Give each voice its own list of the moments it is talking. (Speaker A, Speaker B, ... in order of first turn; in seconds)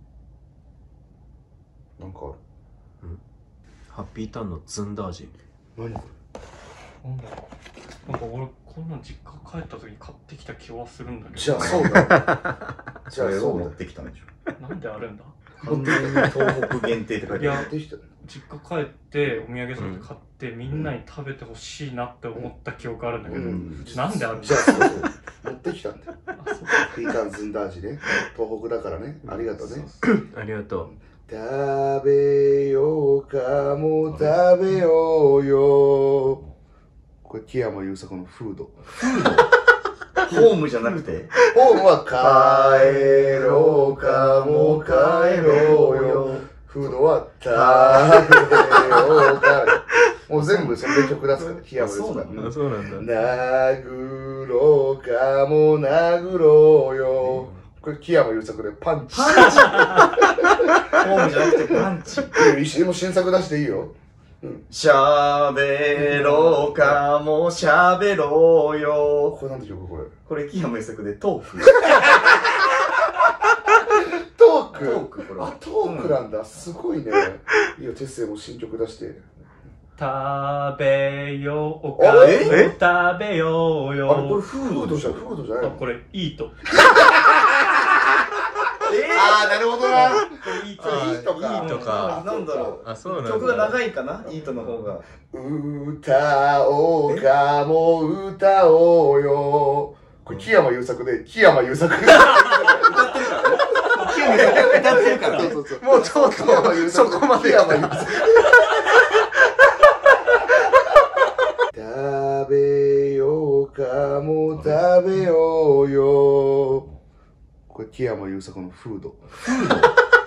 Speaker A: 2.0-2.4, 5.8-6.1, 11.3-12.3, 13.1-13.8, 15.6-16.0, 17.3-18.0, 20.7-20.9, 23.2-26.1, 26.8-29.9, 30.8-36.4, 37.2-38.9, 41.5-60.5, 62.3-64.6, 65.9-67.0, 69.3-70.1, 71.8-72.2, 74.2-79.3, 82.0-82.5, 84.1-85.8, 86.8-87.3, 89.1-92.8, 93.4-93.7, 95.3-103.2, 104.0-108.5, 111.7-116.9, 117.7-119.3
Speaker B: 3.9-5.3, 11.9-12.4, 19.8-20.1, 30.1-30.9, 52.3-53.1, 57.2-57.6, 90.8-92.3, 92.8-93.8, 94.6-94.9, 104.3-108.2
Speaker C: 7.0-7.4, 8.0-11.9, 14.6-15.4, 17.3-17.7, 18.2-25.0, 26.3-26.9, 80.0-84.4, 85.6-86.7, 91.6-92.0
Speaker D: 13.2-14.3, 15.6-17.7, 23.3-23.8, 29.3-30.0, 39.0-39.4, 40.2-41.4, 42.1-49.4, 50.4-50.7, 51.3-52.5, 59.1-60.1, 60.9-62.4, 64.7-69.4, 70.2-71.8, 74.7-76.2, 82.2-82.7, 84.1-85.2, 88.8-95.0, 102.6-106.1, 119.4-119.9